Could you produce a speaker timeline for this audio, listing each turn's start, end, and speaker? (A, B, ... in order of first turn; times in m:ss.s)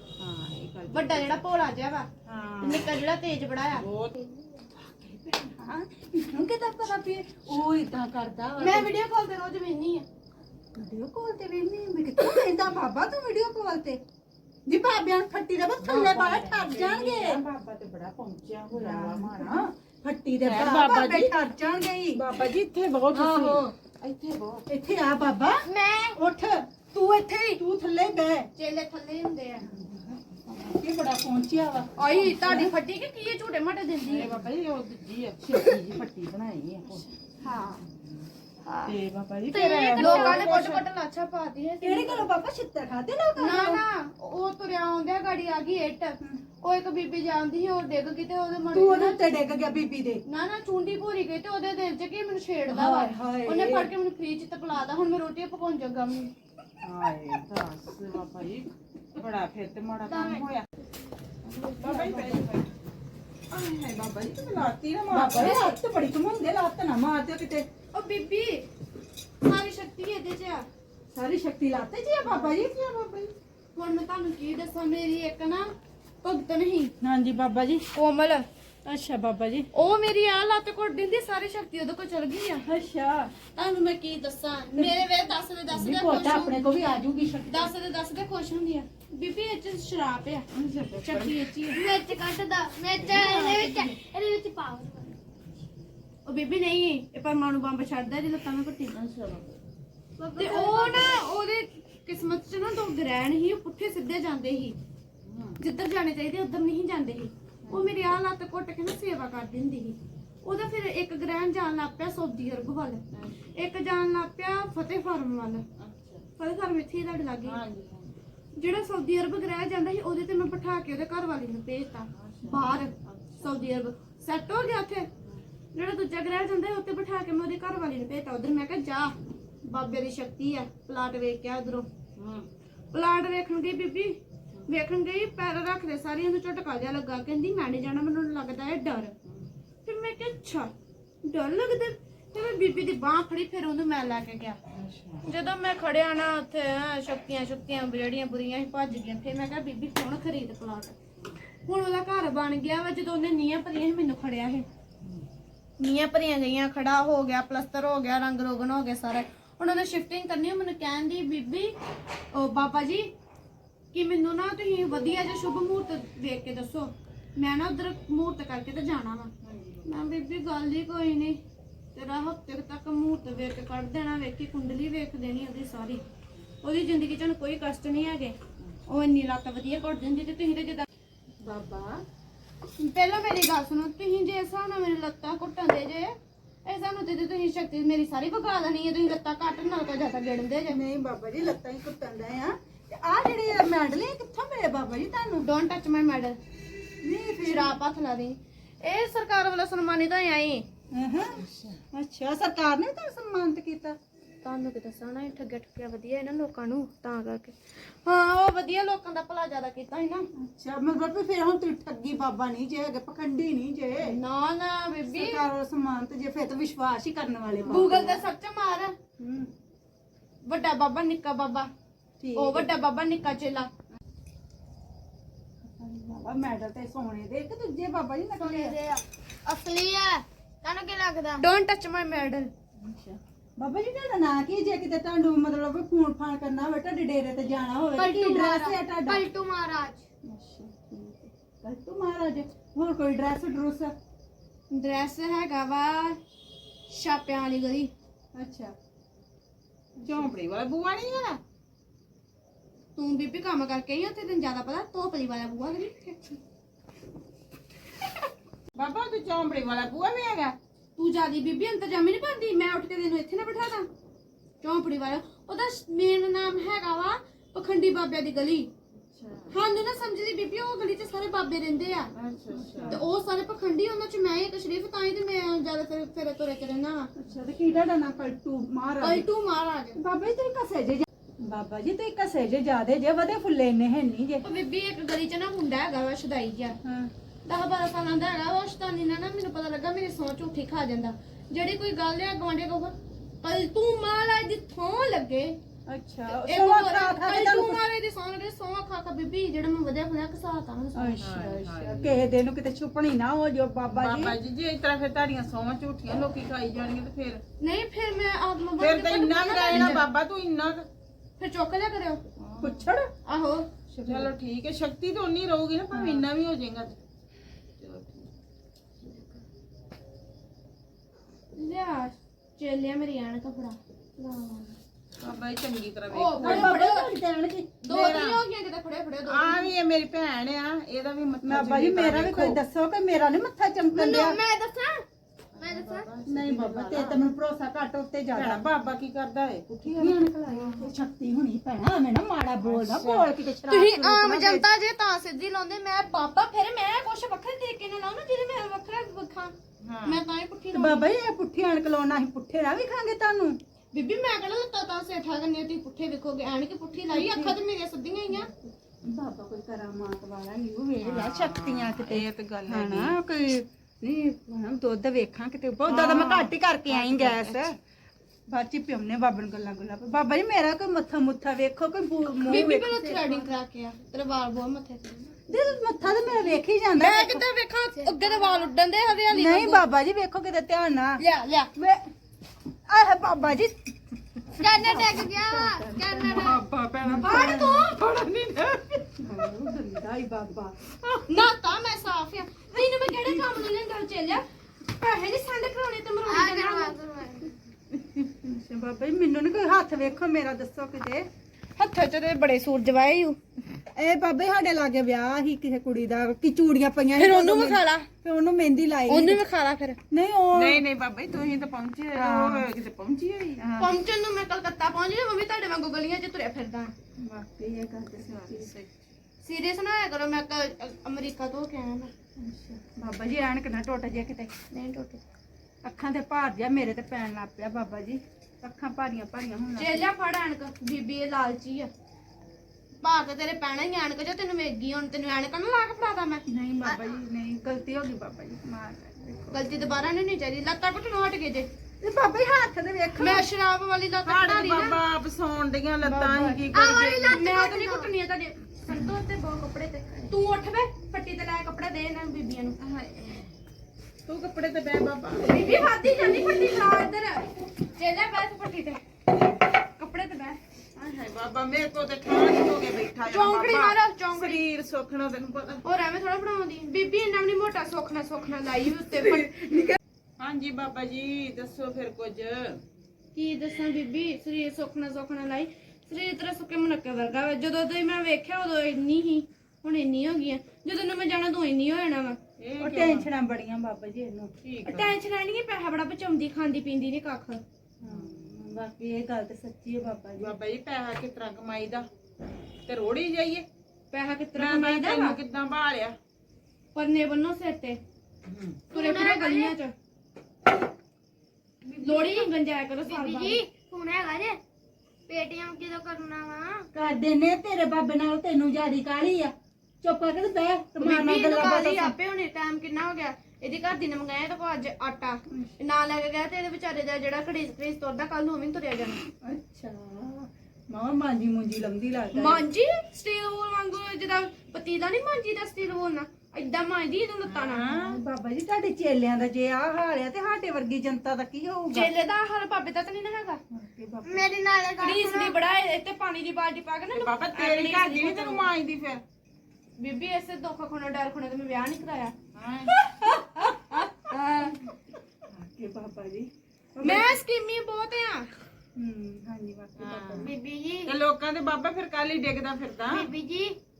0:00.2-0:01.4 A
0:00.9-0:02.1 B
0:02.2-0:02.9 A
0:02.6-0:03.8 B
0:03.7-0:04.1 A
0:04.2-0:04.5 C
0:04.8-0:05.5 A
0:05.5-0:08.9 D
0:08.6-0:10.0 B
0:10.8-0:14.0 D
0:14.6-0:17.4 D
0:15.8-0:19.7 A
0:18.7-0:22.3 D
0:20.4-0:21.4 A
0:22.1-0:24.6 A
0:23.1-0:23.7 D
0:24.7-0:28.5 D
0:25.6-0:26.2 C
0:28.6-0:29.7 B
0:29.6-0:32.7 D
0:32.0-0:34.4 B
0:34.0-0:37.1 A
0:37.4-0:37.8 B
0:38.6-0:38.9 B
0:38.8-0:40.8 A
0:39.5-0:42.3 B
0:40.0-0:40.8 D
0:41.8-0:43.8 D
0:43.4-0:49.2 B
0:48.7-0:50.2 D
0:50.2-0:56.3 B
0:52.7-0:53.9 D
0:56.8-1:00.6 A
1:00.1-1:00.5 C
1:01.8-1:02.7 A
1:01.8-1:02.1 B
1:01.9-1:02.3 C
1:03.5-1:05.7 A
1:05.1-1:07.6 D
1:07.9-1:08.6 B
1:09.4-1:10.6 B
1:11.1-1:12.7 D
1:12.2-1:13.3 A
1:13.7-1:16.9 B
1:17.0-1:17.8 D
1:17.9-1:18.4 B
1:18.8-1:19.7 D
1:19.7-1:22.6 B
1:22.6-1:23.3 D
1:23.5-1:26.7 B
1:25.7-1:27.7 D
1:27.5-1:30.5 B
1:30.5-1:31.3 A
1:31.0-1:31.8 B
1:31.7-1:35.2 C
1:33.1-1:33.8 D
1:33.3-1:33.6 B
1:36.2-1:38.9 B
1:38.9-1:39.6 A
1:40.2-1:41.2 C
1:40.4-1:44.8 B
1:45.2-1:45.6 A
1:45.6-1:53.0 B
1:53.1-1:53.5 A
1:53.5-1:55.6 B
1:55.8-1:56.2 A
1:56.4-1:57.6 B
1:57.4-1:58.2 A
1:58.6-2:05.1 B
2:02.1-2:03.5 A
2:05.7-2:11.9 B
2:12.2-2:12.5 A
2:12.9-2:19.1 B
2:19.8-2:20.7 B
2:21.2-2:24.6 B
2:24.7-2:25.3 A
2:25.2-2:30.9 B
2:31.6-2:34.6 B
2:35.8-2:41.8 B
2:42.3-2:43.1 B
2:43.9-2:49.3 B
2:49.4-2:49.8 A
2:49.8-2:51.4 B
2:51.9-2:56.0 B
2:56.6-3:00.9 B
3:01.4-3:02.0 A
3:02.8-3:10.8 B
3:10.7-3:15.5 D
3:15.4-3:16.4 B
3:17.0-3:17.8 D
3:17.4-3:20.6 B
3:20.9-3:24.0 D
3:21.4-3:21.8 A
3:24.4-3:30.2 B
3:30.3-3:34.1 D
3:34.0-3:35.4 B
3:35.0-3:38.3 D
3:37.5-3:37.9 A
3:37.7-3:39.0 B
3:39.2-3:39.5 D
3:40.4-3:41.7 B
3:42.2-3:42.7 D
3:42.3-3:43.7 B
3:45.6-3:48.8 D
3:48.3-3:51.4 C
3:51.4-3:52.5 B
3:52.8-3:59.3 D
3:58.0-4:00.0 C
4:00.2-4:03.9 D
4:04.7-4:06.2 B
4:06.9-4:07.9 B
4:08.3-4:08.7 D
4:10.0-4:10.3 D
4:10.0-4:11.4 A
4:13.0-4:16.4 B
4:18.7-4:20.6 A
4:21.0-4:23.9 B
4:24.6-4:28.7 B
4:29.1-4:29.5 A
4:29.5-4:32.1 B
4:32.1-4:33.0 A
4:32.5-4:33.0 D
4:32.9-4:37.1 B
4:37.2-4:39.3 D
4:39.0-4:40.0 B
4:40.0-4:44.5 D
4:44.4-4:46.8 B
4:46.8-4:47.1 D
4:47.4-4:55.6 B
4:55.9-4:57.8 D
4:56.3-5:01.2 B
5:00.9-5:04.4 D
5:01.2-5:02.2 A
5:03.9-5:07.4 A
5:07.6-5:10.0 B
5:08.8-5:10.8 A
5:09.7-5:10.0 D
5:11.4-5:12.2 B
5:12.4-5:12.9 A
5:12.6-5:13.1 D
5:13.2-5:13.7 B
5:13.9-5:14.3 D
5:14.0-5:17.0 A
5:15.9-5:16.3 D
5:17.8-5:18.3 A
5:21.5-5:24.8 B
5:25.2-5:26.8 A
5:26.1-5:27.1 B
5:26.4-5:27.9 D
5:27.8-5:29.7 B
5:27.9-5:28.4 A
5:29.2-5:32.6 A
5:31.4-5:34.4 D
5:34.0-5:35.0 B
5:35.5-5:37.2 A
5:35.6-5:35.9 B
5:36.2-5:38.6 D
5:38.3-5:40.9 A
5:40.0-5:44.6 D
5:42.6-5:43.3 A
5:43.7-5:49.5 B
5:49.8-5:50.2 A
5:50.0-5:51.1 B
5:50.7-5:53.6 D
5:53.9-5:58.5 B
5:57.1-5:57.6 D
5:59.0-6:07.8 D
6:01.0-6:03.2 A
6:05.8-6:07.8 A
6:08.5-6:13.5 D
6:12.4-6:15.4 B
6:15.5-6:17.4 D
6:17.0-6:19.8 B
6:18.0-6:18.7 C
6:19.3-6:21.2 D
6:21.2-6:21.7 B
6:21.8-6:22.0 D
6:22.9-6:27.9 D
6:24.6-6:26.6 C
6:26.2-6:27.3 A
6:27.2-6:27.9 B
6:27.9-6:29.2 A
6:29.2-6:30.9 D
6:31.3-6:36.9 B
6:32.9-6:33.7 D
6:36.3-6:37.5 C
6:38.1-6:41.3 D
6:41.8-6:43.4 B
6:43.9-6:49.4 D
6:47.2-6:48.1 B
6:49.1-6:50.0 B
6:50.1-6:50.8 D
6:50.5-6:53.6 A
6:52.1-6:52.7 D
6:53.6-6:53.9 D
6:53.8-6:56.9 B
6:57.2-6:58.7 D
6:58.2-6:58.9 A
6:59.4-7:02.1 B
7:02.4-7:04.5 D
7:04.7-7:05.2 B
7:05.8-7:10.1 D
7:09.8-7:11.9 B
7:13.0-7:16.4 B
7:16.5-7:19.7 D
7:19.5-7:21.7 B
7:22.0-7:23.5 D
7:23.2-7:25.0 B
7:24.2-7:27.4 A
7:26.0-7:26.6 D
7:26.7-7:28.1 C
7:27.3-7:32.8 B
7:32.8-7:33.5 A
7:34.3-7:35.7 A
7:35.4-7:39.0 B
7:40.0-7:40.6 B
7:41.0-7:45.8 A
7:43.3-7:44.6 B
7:45.8-7:49.8 B
7:49.4-7:50.0 D
7:50.4-7:52.8 A
7:53.3-8:02.4 B
8:02.6-8:03.3 A
8:02.8-8:04.5 D
8:04.6-8:05.2 A
8:04.8-8:07.6 B
8:08.0-8:10.5 D
8:08.0-8:08.4 A
8:10.4-8:12.0 A
8:12.8-8:13.6 A
8:14.1-8:15.4 B
8:14.5-8:16.1 A
8:16.9-8:18.0 B
8:18.4-8:18.8 A
8:18.9-8:19.7 C
8:18.9-8:19.9 B
8:21.8-8:22.5 C
8:22.0-8:23.6 B
8:23.0-8:24.6 C
8:25.3-8:26.9 C
8:26.9-8:32.1 D
8:31.0-8:39.2 B
8:39.4-8:42.6 D
8:42.3-8:47.9 B
8:47.5-8:48.2 A
8:47.8-8:52.1 D
8:51.9-8:53.6 B
8:53.7-8:54.5 D
8:54.2-8:55.6 C
8:55.0-8:58.7 B
8:57.1-8:59.2 A
9:00.0-9:02.3 B
9:02.5-9:02.9 A
9:02.9-9:04.8 B
9:05.5-9:07.4 D
9:07.0-9:08.5 B
9:09.0-9:10.5 D
9:10.0-9:10.5 A
9:10.3-9:11.1 C
9:11.0-9:13.3 A
9:13.1-9:13.8 C